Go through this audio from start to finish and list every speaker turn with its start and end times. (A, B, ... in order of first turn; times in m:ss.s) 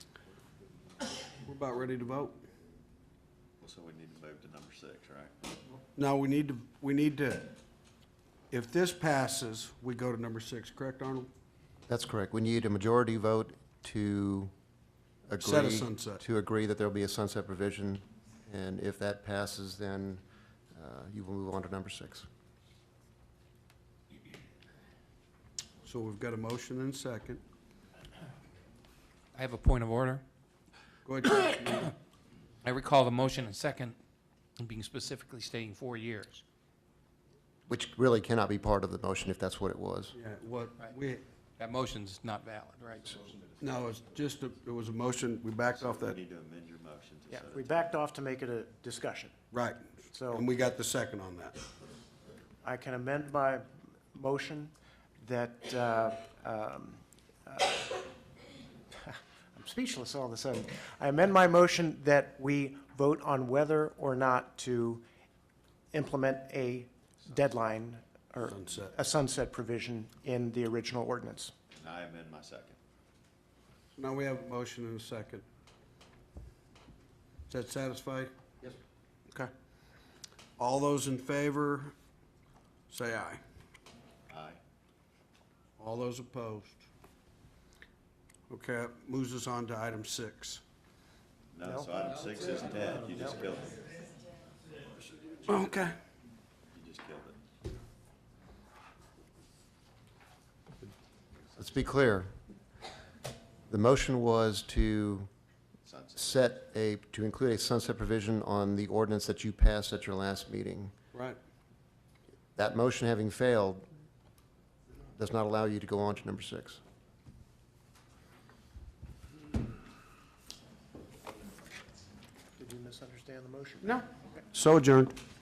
0:01.4-0:02.4 A
0:03.6-0:05.3 B
0:06.0-0:07.5 A
0:08.5-0:11.3 A
0:11.9-0:14.5 C
0:15.3-0:20.2 C
0:15.4-0:16.2 A
0:20.7-0:22.3 C
0:25.8-0:27.4 A
0:29.3-0:30.2 D
0:31.0-0:31.9 A
0:32.6-0:34.0 D
0:34.6-0:36.4 D
0:37.7-0:40.1 C
0:40.1-0:41.2 A
0:41.6-0:43.2 D
0:43.6-0:46.2 A
0:45.8-0:47.9 B
0:47.3-0:49.4 E
0:49.5-0:51.5 A
0:50.1-0:50.5 E
0:52.6-0:58.0 E
0:59.0-1:05.0 E
1:05.9-1:11.5 E
1:08.4-1:08.9 A
1:11.7-1:12.8 B
1:13.9-1:15.4 A
1:17.5-1:18.7 A
1:20.6-1:21.9 A
1:22.9-1:23.4 A
1:24.3-1:24.6 B
1:25.8-1:26.8 A
1:28.5-1:30.6 A
1:31.5-1:34.0 B
1:31.6-1:31.9 E
1:35.5-1:35.9 A
1:36.7-1:37.4 B
1:41.6-1:42.3 C
1:43.7-1:45.3 C
1:45.8-1:46.4 B
1:46.2-1:50.9 C
1:51.1-1:51.4 A
1:52.6-1:53.8 C
1:55.2-1:56.8 C
2:02.6-2:04.4 E
2:03.8-2:05.1 A